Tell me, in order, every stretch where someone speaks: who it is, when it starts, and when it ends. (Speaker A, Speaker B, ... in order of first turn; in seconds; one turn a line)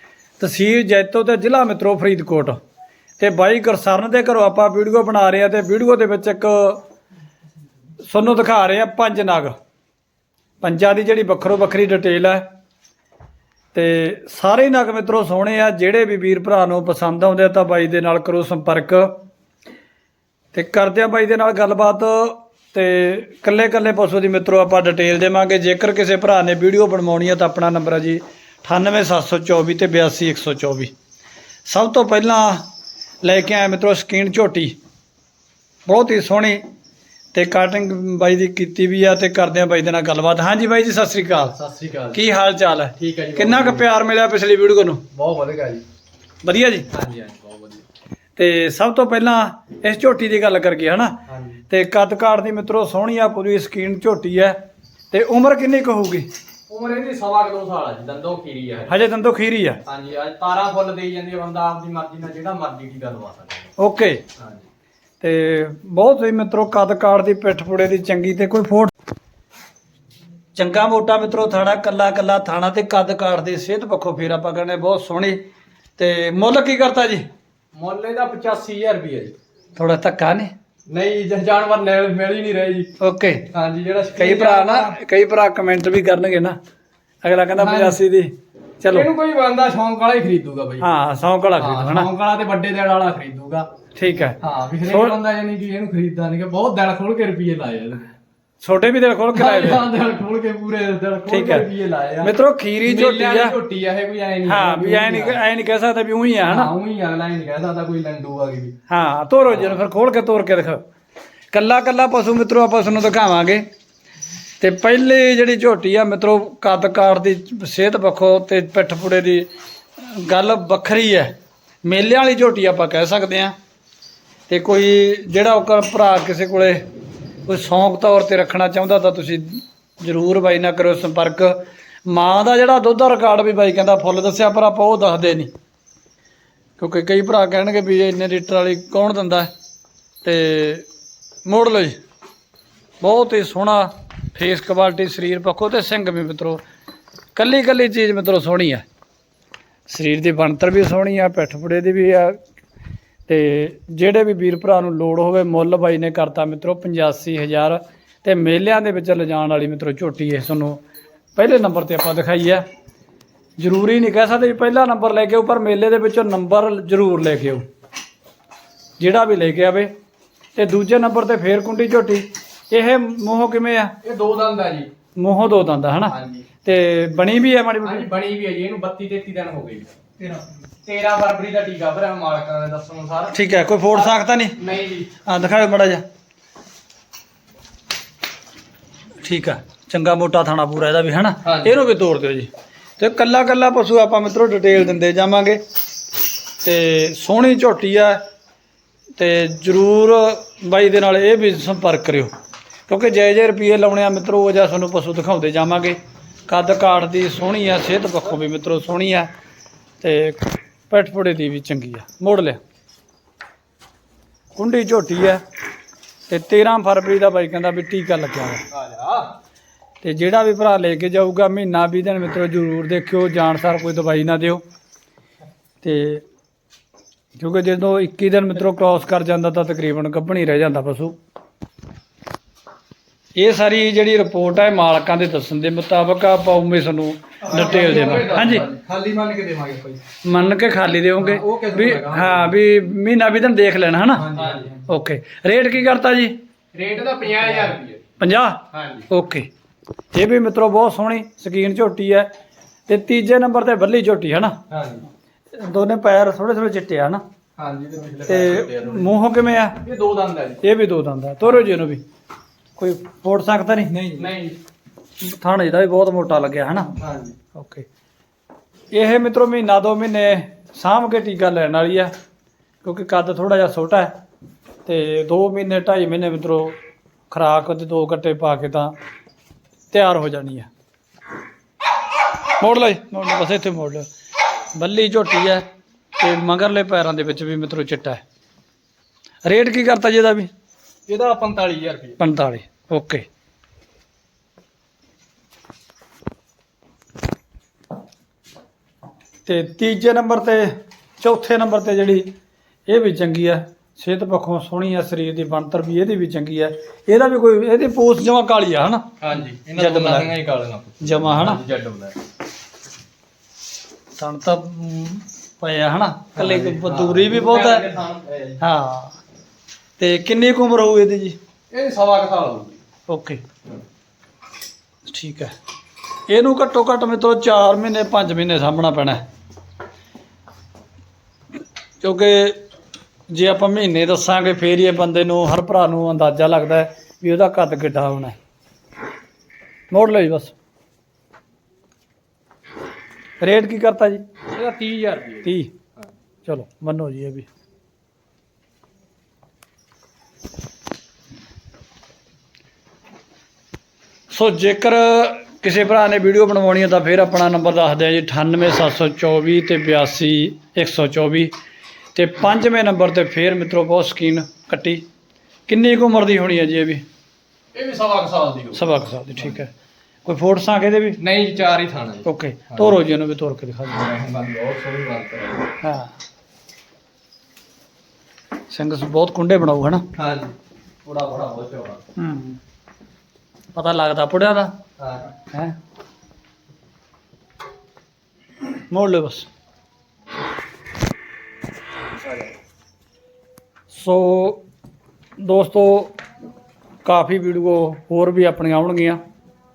Speaker A: 0.4-2.6
Speaker A: 3.2-6.8
Speaker A: 8.1-9.5
Speaker A: 10.6-12.4
Speaker A: 13.7-19.2
Speaker A: 20.5-30.9
Speaker A: 31.6-32.6
Speaker A: 33.2-34.8
Speaker A: 35.9-36.6
Speaker A: 37.3-41.5
Speaker B: 41.5-42.2
Speaker A: 42.1-45.0
Speaker B: 43.0-43.9
Speaker B: 45.1-45.8
Speaker A: 46.4-46.9
Speaker B: 46.9-47.8
Speaker A: 48.4-54.6
Speaker B: 51.3-51.6
Speaker A: 55.1-56.3
Speaker B: 56.7-58.9
Speaker A: 58.9-59.8
Speaker B: 59.8-63.7
Speaker A: 63.8-64.2
Speaker B: 64.4-64.6
Speaker A: 65.2-68.9
Speaker A: 70.5-75.4
Speaker A: 76.0-77.2
Speaker B: 77.7-79.3
Speaker A: 79.8-80.5
Speaker B: 80.9-82.9
Speaker A: 83.0-83.5
Speaker B: 83.5-85.0
Speaker A: 84.2-86.6
Speaker A: 87.2-89.1
Speaker B: 87.5-88.0
Speaker B: 88.9-90.9
Speaker A: 90.8-92.1
Speaker B: 91.6-93.7
Speaker A: 94.0-95.2
Speaker B: 94.4-98.1
Speaker A: 98.6-99.8
Speaker B: 99.3-102.3
Speaker A: 101.3-101.6
Speaker A: 102.2-103.5
Speaker B: 102.8-105.4
Speaker A: 104.5-106.7
Speaker B: 106.4-108.8
Speaker A: 108.9-110.8
Speaker A: 111.5-113.6
Speaker A: 114.6-119.5
Speaker A: 120.0-121.3
Speaker A: 121.8-123.5
Speaker A: 124.5-126.8
Speaker A: 127.5-135.5
Speaker A: 136.8-139.5
Speaker A: 140.2-140.9
Speaker A: 141.4-141.9
Speaker A: 143.0-146.6
Speaker A: 147.3-148.8
Speaker A: 149.9-152.4
Speaker A: 153.3-160.8
Speaker A: 161.3-162.6
Speaker A: 163.6-167.6
Speaker A: 169.0-169.9
Speaker A: 170.6-173.9
Speaker B: 174.0-174.9
Speaker A: 175.2-178.1
Speaker B: 176.1-176.4
Speaker B: 177.8-179.9
Speaker B: 180.8-183.4
Speaker A: 183.3-184.6
Speaker B: 184.6-185.1
Speaker A: 185.2-186.0
Speaker A: 189.2-195.6
Speaker B: 191.4-191.7
Speaker A: 196.6-198.2
Speaker A: 199.2-202.3
Speaker A: 202.9-209.3
Speaker A: 210.0-212.6
Speaker A: 214.5-215.4
Speaker A: 216.3-218.6
Speaker B: 218.7-219.3
Speaker A: 220.0-224.6
Speaker A: 225.8-226.2
Speaker A: 227.3-231.2
Speaker A: 233.3-238.7
Speaker B: 237.4-240.0
Speaker A: 240.2-246.4
Speaker B: 241.2-242.6
Speaker B: 244.1-244.8
Speaker B: 246.7-248.1
Speaker A: 248.2-249.5
Speaker B: 248.7-249.1
Speaker A: 250.1-252.3
Speaker A: 252.9-254.6
Speaker B: 254.7-255.1
Speaker A: 255.5-257.2
Speaker B: 257.6-259.1
Speaker A: 258.2-259.8
Speaker B: 259.8-260.6
Speaker A: 260.6-262.0
Speaker A: 262.8-264.2
Speaker B: 263.9-264.6
Speaker A: 265.2-266.9
Speaker B: 267.0-267.4
Speaker A: 267.5-267.9
Speaker A: 268.9-272.1
Speaker A: 272.8-274.1
Speaker A: 274.8-276.8
Speaker A: 277.3-278.9
Speaker A: 279.9-280.7
Speaker A: 282.6-284.1
Speaker A: 284.7-285.6
Speaker A: 286.2-288.2
Speaker A: 289.4-290.5
Speaker B: 291.1-292.2
Speaker A: 292.2-293.2
Speaker A: 299.4-302.3
Speaker A: 302.9-309.1
Speaker B: 309.2-312.1
Speaker A: 309.8-310.3
Speaker A: 311.0-311.6
Speaker A: 314.1-317.8
Speaker B: 316.4-318.6
Speaker A: 318.6-319.1
Speaker A: 320.0-321.4
Speaker B: 321.7-322.8
Speaker A: 323.1-323.4
Speaker A: 325.1-325.5
Speaker A: 326.3-329.2
Speaker A: 332.0-332.6
Speaker A: 333.3-338.4
Speaker A: 339.9-340.5
Speaker A: 343.4-344.2
Speaker B: 344.4-346.1
Speaker A: 345.4-345.7
Speaker A: 346.4-347.5
Speaker A: 354.3-361.5
Speaker A: 362.1-365.0
Speaker A: 365.7-367.0
Speaker B: 367.7-369.6
Speaker A: 368.7-369.7
Speaker A: 370.2-371.2
Speaker B: 371.2-372.9
Speaker A: 372.2-374.1
Speaker B: 373.9-375.7
Speaker A: 375.8-376.1
Speaker A: 378.7-380.1
Speaker B: 380.1-382.0
Speaker A: 382.1-382.6
Speaker A: 383.7-384.8
Speaker B: 385.0-385.3
Speaker A: 388.9-389.5
Speaker A: 393.9-394.6
Speaker A: 395.4-396.1
Speaker A: 397.0-399.2